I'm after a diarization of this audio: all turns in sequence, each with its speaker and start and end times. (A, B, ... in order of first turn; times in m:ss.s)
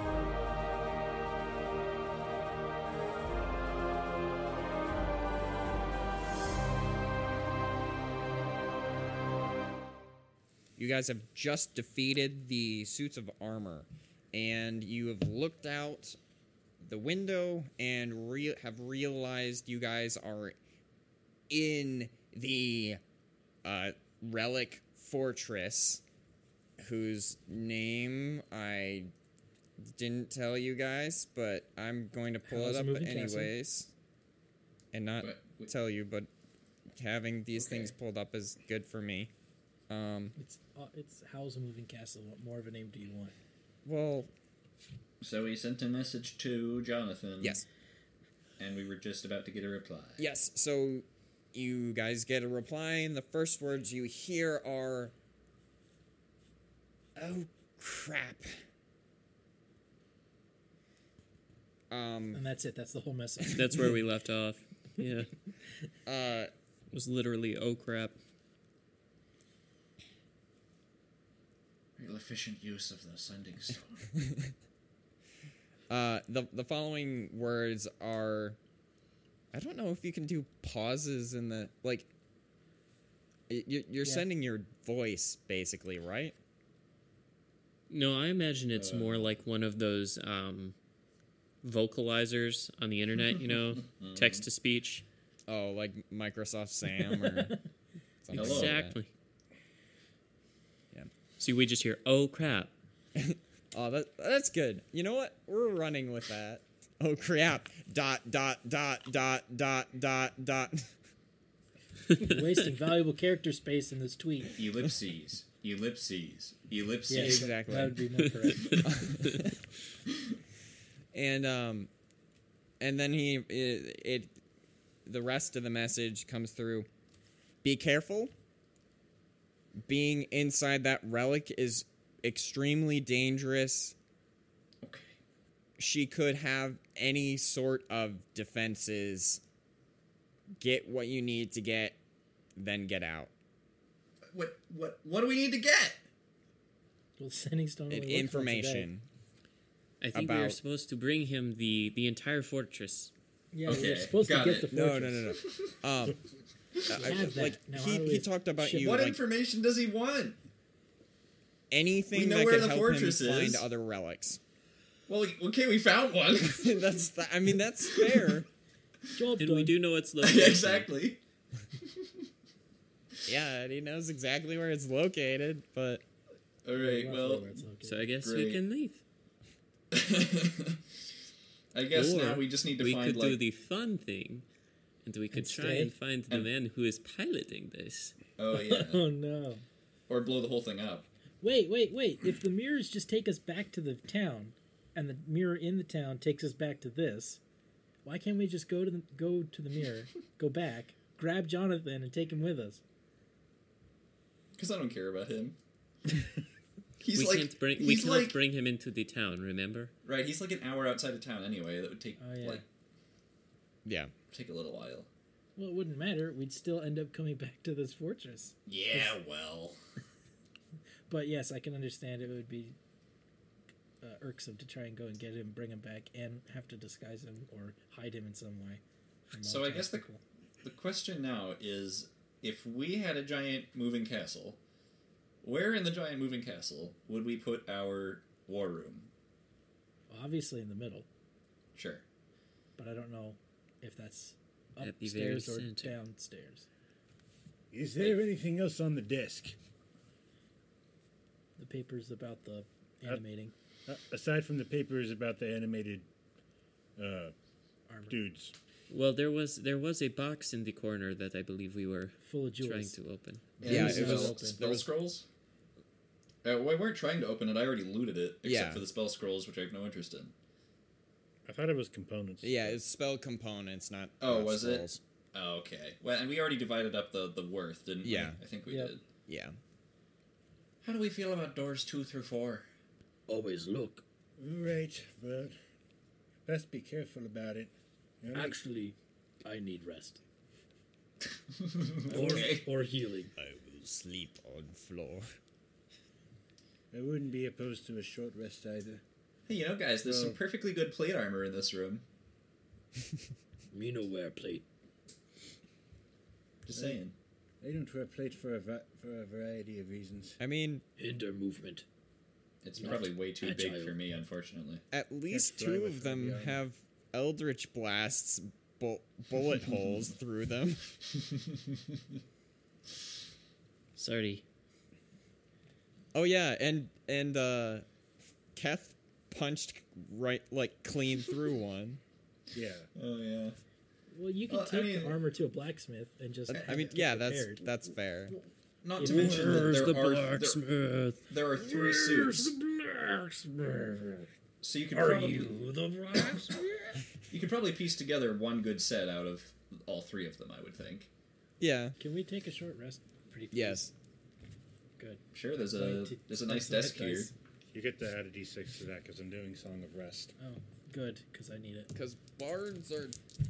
0:10.8-0:16.2 A
0:16.8-0:20.6 A
0:21.5-0:23.0 A
0:23.6-0:26.0 A
0:26.8-0:29.1 A
0:29.8-0:33.9 A
0:32.4-0:33.5 B
0:34.9-0:36.3 A
0:35.2-0:35.7 C
0:36.9-0:39.3 A
0:37.5-0:37.9 C
0:39.9-0:40.3 A
0:40.4-0:43.3 B
0:43.8-0:44.3 A
0:45.2-0:47.6 C
0:48.6-0:50.2 C
0:50.2-0:55.1 A
0:57.2-0:58.6 A
1:01.9-1:02.4 A
1:02.3-1:03.8 B
1:03.5-1:05.3 D
1:06.0-1:06.5 A
1:06.9-1:08.1 D
1:12.0-1:14.1 C
1:14.2-1:14.5 A
1:15.9-1:18.6 A
1:19.5-1:22.1 A
1:23.5-1:26.3 A
1:24.0-1:24.3 B
1:27.9-1:30.7 D
1:28.7-1:29.3 C
1:31.6-1:35.0 D
1:33.9-1:34.5 C
1:35.5-1:37.6 A
1:38.2-1:39.0 A
1:38.3-1:39.1 D
1:38.3-1:38.8 C
1:41.4-1:42.7 D
1:43.2-1:50.9 A
1:52.2-1:54.6 B
1:54.5-1:57.9 C
1:57.1-1:58.9 B
1:57.1-1:58.1 A
1:58.0-1:59.0 D
1:58.7-1:59.5 A
2:01.1-2:01.9 A
2:02.8-2:04.3 A
2:05.0-2:06.9 A
2:07.6-2:08.3 A
2:09.8-2:13.9 A
2:14.8-2:15.2 C
2:15.8-2:19.4 A
2:20.6-2:22.0 A
2:22.5-2:23.3 A
2:24.3-2:26.0 C
2:27.2-2:28.9 B
2:27.9-2:29.0 A
2:30.0-2:33.1 D
2:30.1-2:30.6 A
2:33.5-2:35.3 B
2:33.6-2:34.7 C
2:34.7-2:36.2 A
2:35.2-2:35.8 C
2:36.8-2:37.3 C
2:36.9-2:39.2 A
2:36.9-2:39.0 B
2:38.7-2:40.4 C
2:41.7-2:44.4 A
2:42.1-2:43.6 C
2:45.1-2:46.9 C
2:46.4-2:48.5 A
2:47.9-2:48.4 C
2:49.1-2:49.7 B
2:49.4-2:50.9 D
2:50.2-2:51.2 C
2:51.8-2:52.3 C
2:53.2-2:56.0 A
2:56.6-2:57.6 C
2:56.8-2:58.0 B
2:57.8-2:59.0 D
2:58.2-2:58.6 C
2:59.9-3:00.8 C
3:01.7-3:03.4 C
3:01.9-3:04.4 D
3:05.0-3:08.2 D
3:05.3-3:05.9 B
3:08.4-3:09.0 C
3:08.5-3:09.6 B
3:10.1-3:11.1 C
3:11.4-3:17.4 B
3:18.0-3:22.8 B
3:24.6-3:25.6 C
3:27.0-3:28.4 C
3:27.1-3:29.9 D
3:30.0-3:32.6 C
3:32.2-3:32.6 B
3:33.8-3:34.1 A
3:34.3-3:35.1 C
3:35.6-3:39.1 B
3:38.6-3:39.8 C
3:41.1-3:42.8 B
3:44.0-3:50.2 B
3:49.4-3:50.0 C
3:50.6-3:54.6 C
3:55.4-3:59.1 C
4:00.1-4:01.0 B
4:01.7-4:02.0 C
4:02.8-4:06.6 B
4:04.8-4:06.0 D
4:07.7-4:09.6 E
4:11.6-4:13.5 B
4:13.8-4:16.1 E
4:17.0-4:17.3 E
4:17.9-4:18.2 B
4:18.1-4:18.5 E
4:18.9-4:23.6 D
4:22.2-4:23.0 B
4:23.6-4:24.6 B
4:23.6-4:23.9 E
4:23.6-4:25.2 C
4:23.6-4:24.9 A
4:26.4-4:30.3 C
4:28.4-4:28.8 A
4:31.4-4:32.8 E
4:32.4-4:35.0 A
4:34.2-4:39.0 C
4:38.0-4:38.4 A
4:38.7-4:38.9 B
4:39.3-4:39.6 A
4:40.8-4:42.7 C
4:43.3-4:44.0 B
4:44.4-4:45.5 E
4:46.4-4:48.6 E
4:48.3-4:50.2 B
4:51.5-4:52.6 C
4:52.1-4:53.3 B
4:53.4-4:55.3 A
4:56.9-4:59.0 E
4:59.5-5:02.0 C
5:00.0-5:00.4 E
5:03.7-5:04.6 B
5:06.6-5:07.1 C
5:06.7-5:07.0 E
5:07.6-5:10.4 E
5:10.4-5:10.8 A
5:11.0-5:11.8 B
5:12.6-5:14.8 C
5:12.8-5:14.0 B
5:14.9-5:21.0 A
5:15.3-5:16.6 E
5:24.0-5:24.4 D
5:26.1-5:27.8 A
5:28.5-5:32.0 A
5:32.5-5:32.9 E
5:32.9-5:33.6 C
5:34.1-5:37.6 B
5:34.5-5:35.2 C
5:36.5-5:38.4 A
5:36.5-5:36.9 C
5:38.3-5:40.6 C
5:39.0-5:44.3 B
5:41.3-5:42.5 C
5:44.6-5:45.6 C
5:44.9-5:47.0 B
5:47.3-5:51.1 C
5:51.6-5:52.0 A
5:52.0-5:53.8 B
5:53.5-5:53.9 A
5:55.0-5:57.3 B
5:55.3-5:57.3 C
5:57.7-6:00.4 E
6:00.4-6:01.9 B
6:01.9-6:03.2 A